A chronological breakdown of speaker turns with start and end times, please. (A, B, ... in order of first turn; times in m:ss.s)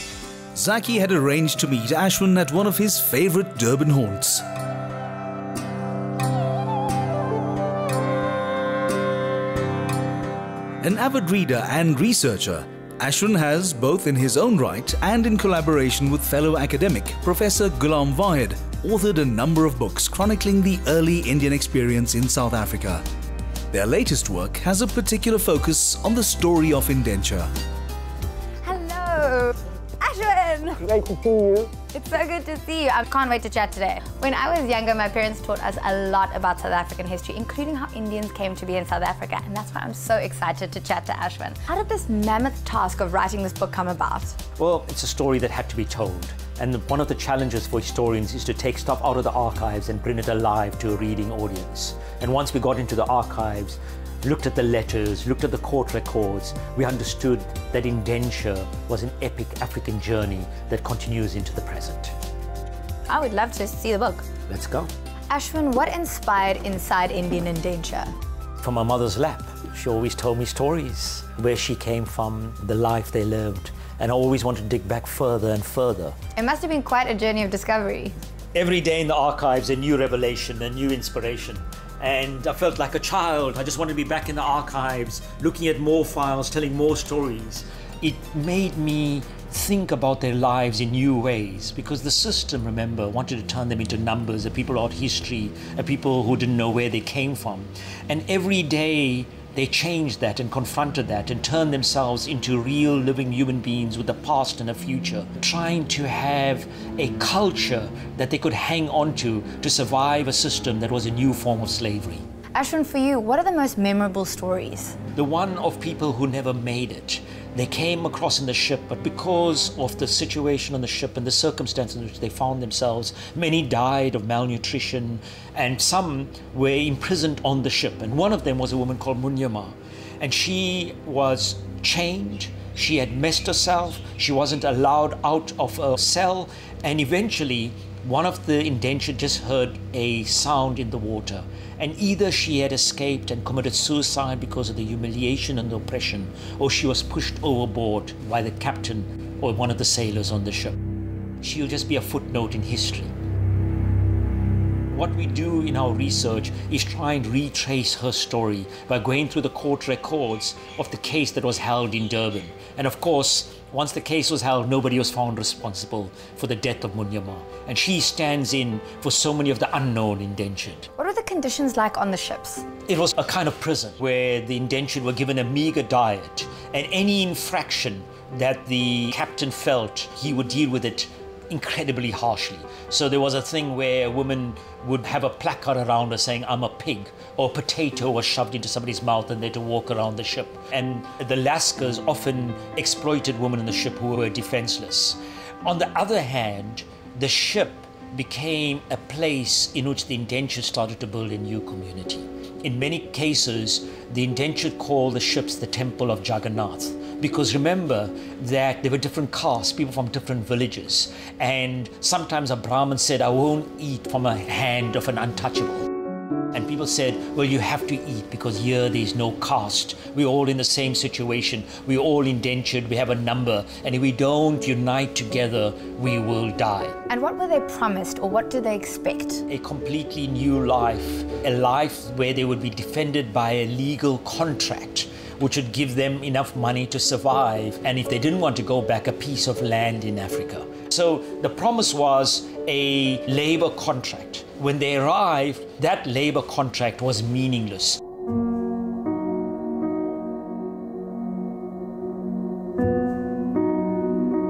0:00.6-0:04.4 A
0:10.8-0:23.0 A
0:23.7-0:27.5 A
0:28.6-0:30.8 B
0:30.8-0:31.7 C
0:31.8-0:44.4 B
0:44.6-1:02.1 C
1:03.1-1:04.2 B
1:04.5-1:04.9 C
1:05.3-1:08.1 B
1:08.6-1:16.2 C
1:16.4-1:18.1 B
1:18.5-1:52.2 C
1:52.5-1:54.9 B
1:55.1-2:30.8 C
2:31.4-2:33.1 C
2:34.9-2:50.9 C
2:51.0-2:52.6 B
2:52.9-3:35.9 C
3:36.5-3:47.0 C
3:47.1-3:49.4 B
3:49.5-4:08.0 C